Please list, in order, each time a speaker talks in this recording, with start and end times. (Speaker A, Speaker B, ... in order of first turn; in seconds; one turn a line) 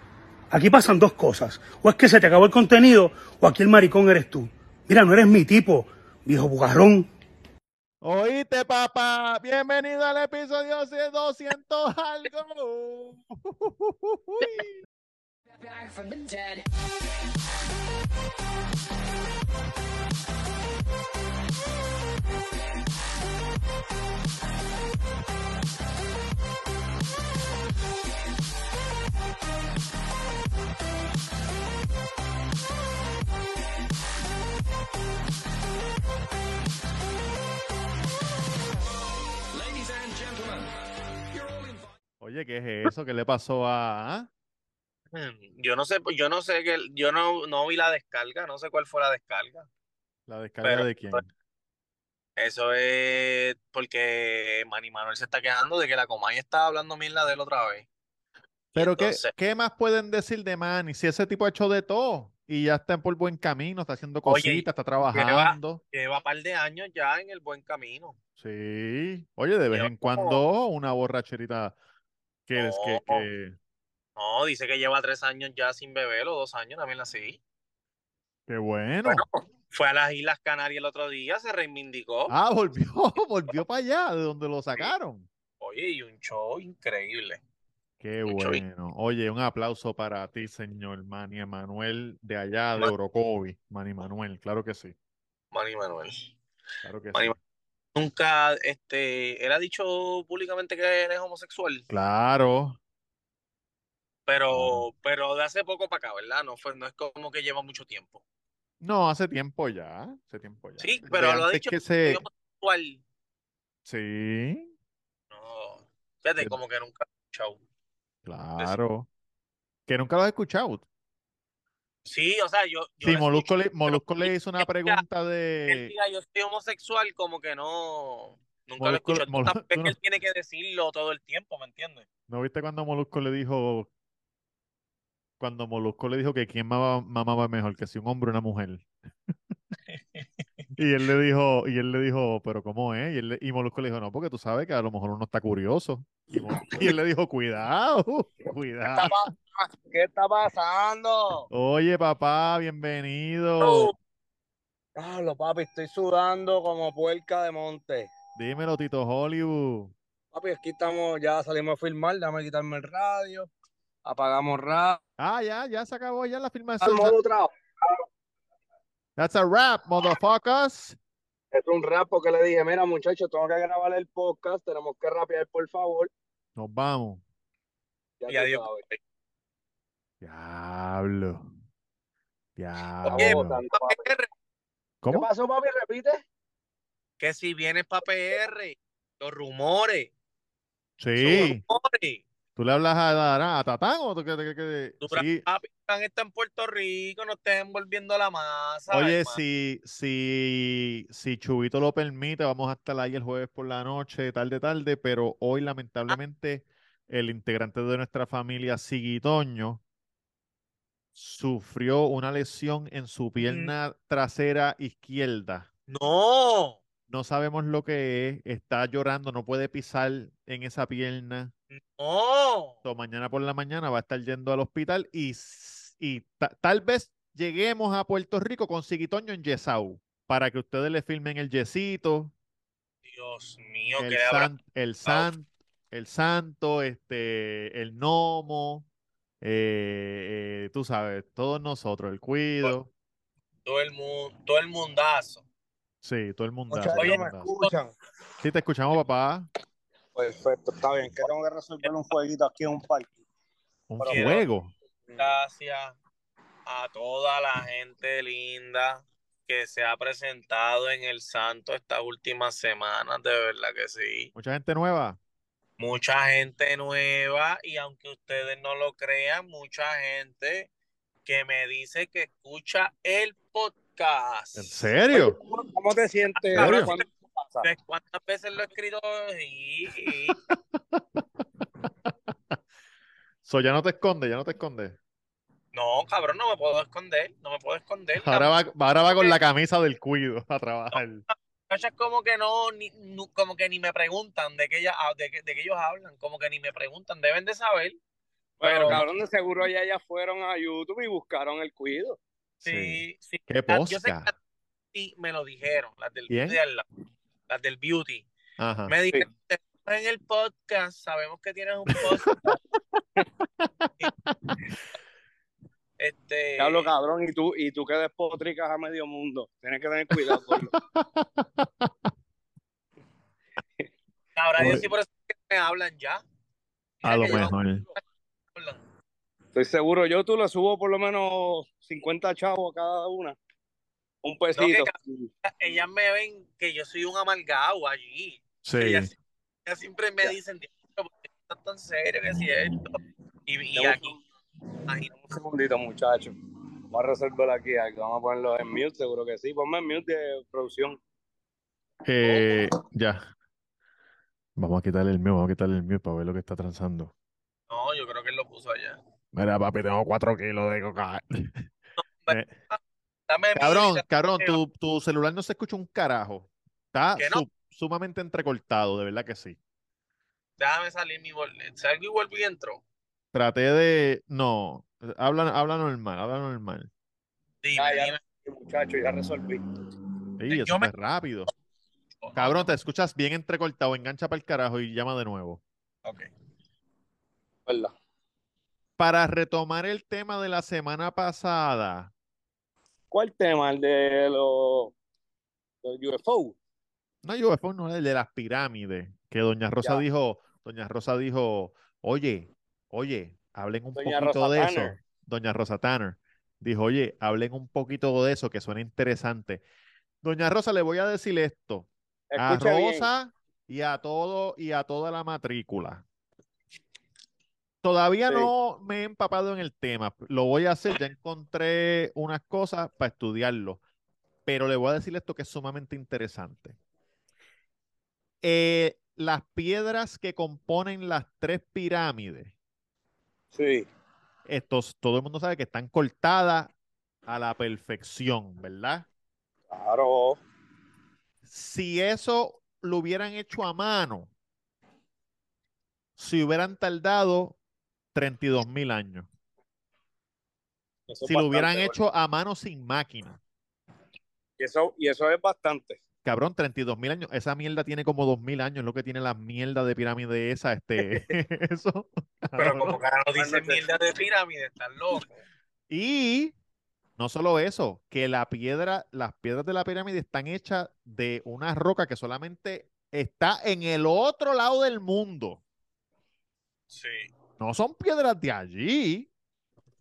Speaker A: 0.5-7.1
Speaker B: 8.0-14.8
Speaker C: 15.5-16.7
Speaker C: 39.5-40.7
Speaker C: 41.3-41.9
Speaker B: 42.2-44.3
Speaker D: 45.1-49.7
Speaker B: 50.3-51.3
Speaker D: 50.6-51.2
Speaker D: 52.4-57.9
Speaker D: 58.7-59.3
Speaker B: 58.8-65.8
Speaker D: 64.2-68.2
Speaker B: 68.4-71.8
Speaker D: 69.7-70.4
Speaker B: 72.5-73.6
Speaker D: 72.5-73.2
Speaker D: 74.2-77.4
Speaker B: 78.5-79.2
Speaker D: 79.0-82.3
Speaker B: 82.3-85.3
Speaker D: 85.6-87.4
Speaker B: 88.0-95.0
Speaker D: 88.2-88.6
Speaker D: 95.5-96.3
Speaker B: 96.8-97.4
Speaker D: 98.0-101.8
Speaker B: 101.9-102.8
Speaker D: 104.3-108.2
Speaker B: 104.5-104.9
Speaker B: 108.8-112.2
Speaker D: 110.8-113.0
Speaker B: 113.9-114.7
Speaker D: 115.3-117.6
Speaker B: 118.2-119.1
Speaker B: 119.9-120.8
Speaker D: 122.1-125.0
Speaker B: 123.0-125.9
Speaker D: 125.7-132.1
Speaker B: 128.8-129.9
Speaker B: 132.3-133.9
Speaker B: 135.4-138.9
Speaker D: 139.9-140.2
Speaker B: 140.7-149.1
Speaker E: 148.9-151.5
Speaker B: 151.5-153.9
Speaker D: 153.6-153.9
Speaker E: 155.0-158.1
Speaker B: 158.3-159.9
Speaker E: 160.3-163.5
Speaker E: 164.0-165.0
Speaker B: 165.2-167.1
Speaker E: 166.8-167.5
Speaker B: 169.2-171.0
Speaker E: 171.5-176.1
Speaker B: 176.6-177.2
Speaker E: 178.2-178.8
Speaker D: 178.3-178.9
Speaker B: 180.2-181.5
Speaker B: 182.6-183.6
Speaker D: 183.1-184.3
Speaker E: 183.1-184.1
Speaker B: 185.0-185.3
Speaker E: 185.1-186.2
Speaker D: 187.2-190.1
Speaker B: 191.0-191.6
Speaker D: 191.2-192.2
Speaker B: 192.6-195.4
Speaker D: 195.0-199.4
Speaker B: 198.9-209.8
Speaker B: 211.1-215.7
Speaker D: 213.4-213.7
Speaker D: 215.9-216.8
Speaker B: 217.1-221.5
Speaker D: 221.7-222.8
Speaker B: 222.8-232.3
Speaker D: 233.0-234.5
Speaker B: 234.0-238.8
Speaker B: 239.4-242.9
Speaker D: 243.7-245.4
Speaker B: 246.0-247.5
Speaker E: 246.7-247.9
Speaker D: 246.9-247.7
Speaker B: 248.4-249.5
Speaker E: 250.1-253.1
Speaker B: 253.9-254.7
Speaker E: 254.0-254.2
Speaker D: 254.1-254.4
Speaker E: 255.1-255.3
Speaker D: 255.2-255.9
Speaker D: 256.6-264.3
Speaker B: 264.3-265.2
Speaker D: 265.8-270.7
Speaker D: 271.2-274.8
Speaker B: 274.5-275.4
Speaker E: 275.1-277.7
Speaker D: 276.5-277.0
Speaker B: 276.5-276.9
Speaker D: 277.6-280.4
Speaker B: 280.0-281.2
Speaker B: 283.4-285.0
Speaker D: 285.7-288.5
Speaker B: 288.2-291.2
Speaker D: 289.1-289.4
Speaker D: 291.7-298.0
Speaker D: 298.6-299.0
Speaker E: 298.6-302.2
Speaker B: 302.6-304.3
Speaker D: 302.6-304.3
Speaker D: 304.9-306.8
Speaker B: 306.3-306.6
Speaker D: 307.5-308.3
Speaker B: 308.6-308.9
Speaker D: 308.9-312.5
Speaker B: 311.9-312.6
Speaker B: 313.6-314.3
Speaker D: 316.0-316.9
Speaker E: 316.6-320.7
Speaker B: 320.3-322.1
Speaker D: 324.4-326.2
Speaker B: 324.6-324.9
Speaker D: 327.0-328.0
Speaker B: 327.0-327.8
Speaker D: 328.5-328.8
Speaker E: 329.5-333.4
Speaker E: 334.2-335.3
Speaker D: 334.5-334.9
Speaker D: 335.4-339.1
Speaker B: 338.6-339.1
Speaker D: 339.6-344.1
Speaker E: 343.8-344.2
Speaker E: 345.1-346.3
Speaker E: 346.9-351.0
Speaker B: 352.0-353.2
Speaker D: 352.2-352.6
Speaker B: 354.6-357.1
Speaker D: 357.7-359.0
Speaker B: 359.3-361.6
Speaker D: 362.1-364.6
Speaker B: 363.5-369.6
Speaker D: 367.2-367.4
Speaker D: 370.6-372.8
Speaker B: 373.3-376.9
Speaker D: 377.6-378.2
Speaker E: 377.8-379.6
Speaker B: 380.4-381.5
Speaker D: 380.5-380.9
Speaker D: 382.2-382.7
Speaker B: 382.4-385.6
Speaker E: 387.7-387.9
Speaker B: 389.0-392.1
Speaker E: 393.1-394.9
Speaker E: 395.8-396.6
Speaker B: 397.2-409.6
Speaker E: 403.9-405.0
Speaker B: 410.2-416.0
Speaker E: 412.3-413.1
Speaker B: 417.8-423.8
Speaker B: 424.4-426.8
Speaker B: 428.4-432.5
Speaker E: 433.5-433.9
Speaker B: 434.4-436.7
Speaker B: 437.3-439.1
Speaker E: 439.7-440.4
Speaker B: 441.4-444.3
Speaker B: 446.2-447.6
Speaker B: 448.1-449.3
Speaker E: 451.1-452.0
Speaker B: 451.2-453.4
Speaker E: 454.6-456.0
Speaker B: 456.2-463.0
Speaker D: 462.6-465.3
Speaker E: 463.3-463.8
Speaker B: 465.9-466.5
Speaker B: 467.2-475.6
Speaker D: 476.9-477.3
Speaker B: 477.6-479.3